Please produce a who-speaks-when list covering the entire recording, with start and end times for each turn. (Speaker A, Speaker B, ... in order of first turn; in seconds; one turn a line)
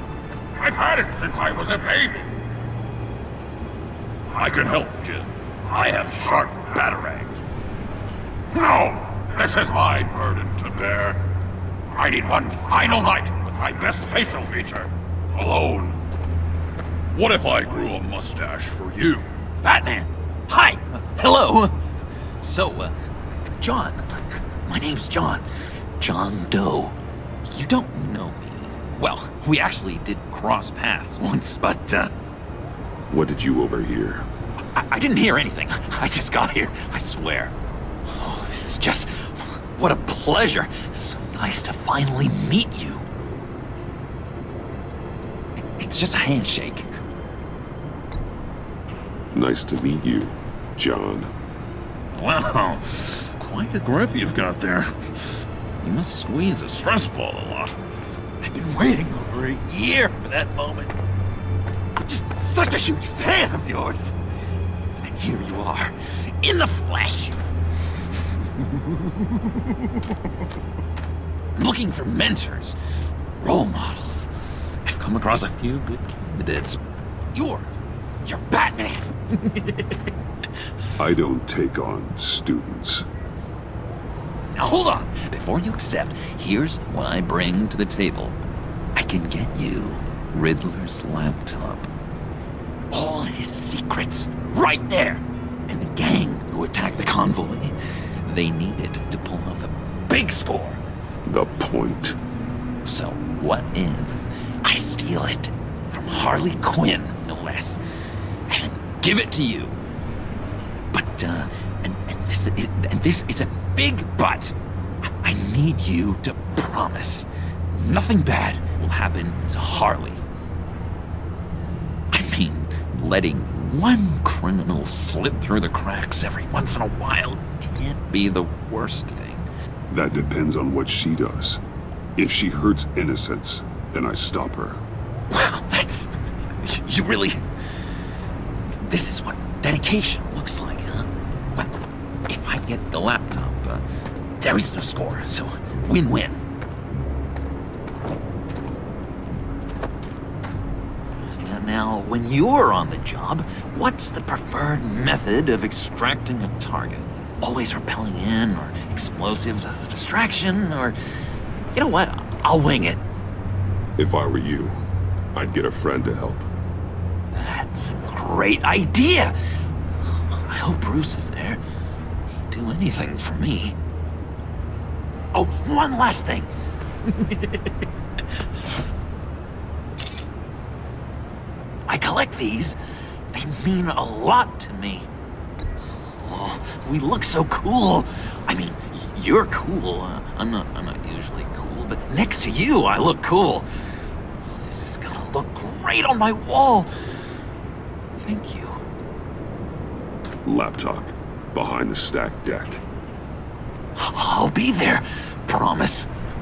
Speaker A: 0.6-2.3
Speaker A: 4.3-7.4
Speaker A: 8.5-11.2
Speaker A: 11.9-16.0
Speaker A: 17.1-19.2
Speaker B: 19.6-21.7
Speaker B: 22.4-25.4
Speaker B: 26.0-26.9
Speaker B: 27.5-32.1
Speaker C: 33.1-34.3
Speaker B: 34.8-37.5
Speaker B: 38.1-43.0
Speaker B: 45.6-46.9
Speaker C: 49.3-51.3
Speaker B: 52.1-55.1
Speaker B: 55.8-57.7
Speaker B: 58.4-61.0
Speaker B: 62.0-64.2
Speaker B: 65.0-67.4
Speaker B: 71.6-72.8
Speaker B: 73.4-76.8
Speaker B: 77.3-77.7
Speaker B: 78.2-80.0
Speaker C: 81.0-83.0
Speaker B: 84.5-88.3
Speaker B: 88.9-91.9
Speaker B: 92.9-100.8
Speaker C: 101.2-102.2
Speaker B: 102.8-107.8
Speaker B: 108.5-109.8
Speaker B: 110.9-114.5
Speaker B: 115.2-120.2
Speaker B: 122.1-129.5
Speaker C: 129.9-131.6
Speaker C: 132.2-134.8
Speaker B: 135.3-136.1
Speaker B: 136.6-137.4
Speaker B: 138.9-141.7
Speaker B: 142.3-143.8
Speaker B: 144.4-146.4
Speaker B: 151.4-161.0
Speaker B: 161.7-163.0
Speaker C: 164.0-164.8
Speaker C: 165.3-166.4
Speaker B: 167.3-169.3
Speaker B: 170.3-171.6
Speaker B: 172.5-173.8
Speaker B: 175.3-176.5
Speaker B: 177.1-177.7
Speaker B: 181.9-182.8
Speaker B: 183.3-185.1
Speaker B: 185.9-193.7
Speaker B: 194.4-196.9
Speaker B: 198.1-198.8
Speaker C: 200.4-202.8
Speaker B: 204.0-206.1